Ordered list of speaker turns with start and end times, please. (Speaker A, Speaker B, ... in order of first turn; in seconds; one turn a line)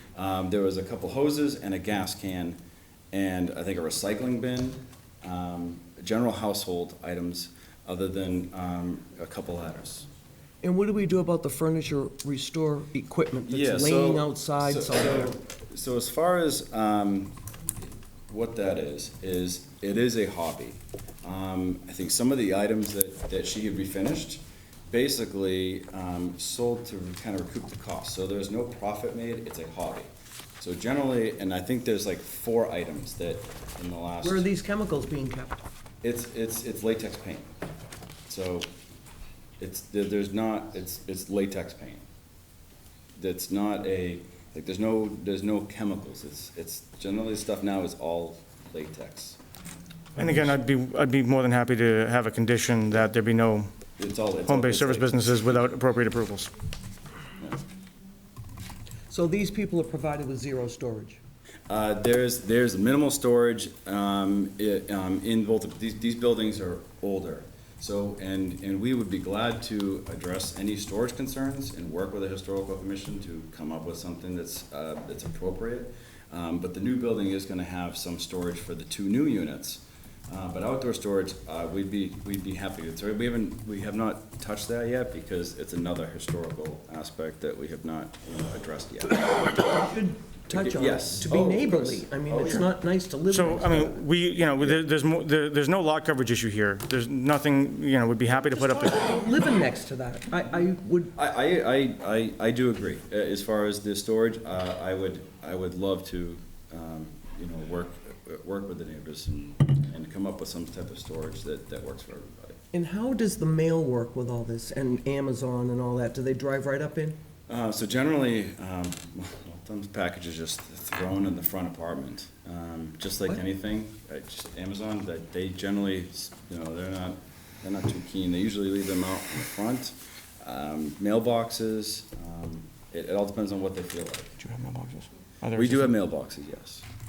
Speaker A: 0.1-2.6
Speaker A: 3.1-10.1
Speaker B: 10.6-15.4
Speaker A: 13.5-17.4
Speaker A: 18.3-30.1
Speaker A: 30.6-34.5
Speaker B: 34.2-35.6
Speaker A: 36.0-37.5
Speaker A: 38.3-38.7
Speaker A: 39.6-42.0
Speaker A: 43.1-49.4
Speaker C: 50.1-53.7
Speaker A: 54.0-55.3
Speaker C: 54.5-56.5
Speaker B: 59.1-61.2
Speaker A: 61.7-89.5
Speaker B: 89.1-94.0
Speaker A: 90.5-92.7
Speaker C: 93.3-99.2
Speaker B: 98.5-101.1
Speaker A: 101.1-112.6
Speaker B: 112.7-117.2
Speaker A: 117.5-134.4
Speaker C: 134.4-135.9
Speaker A: 135.5-136.8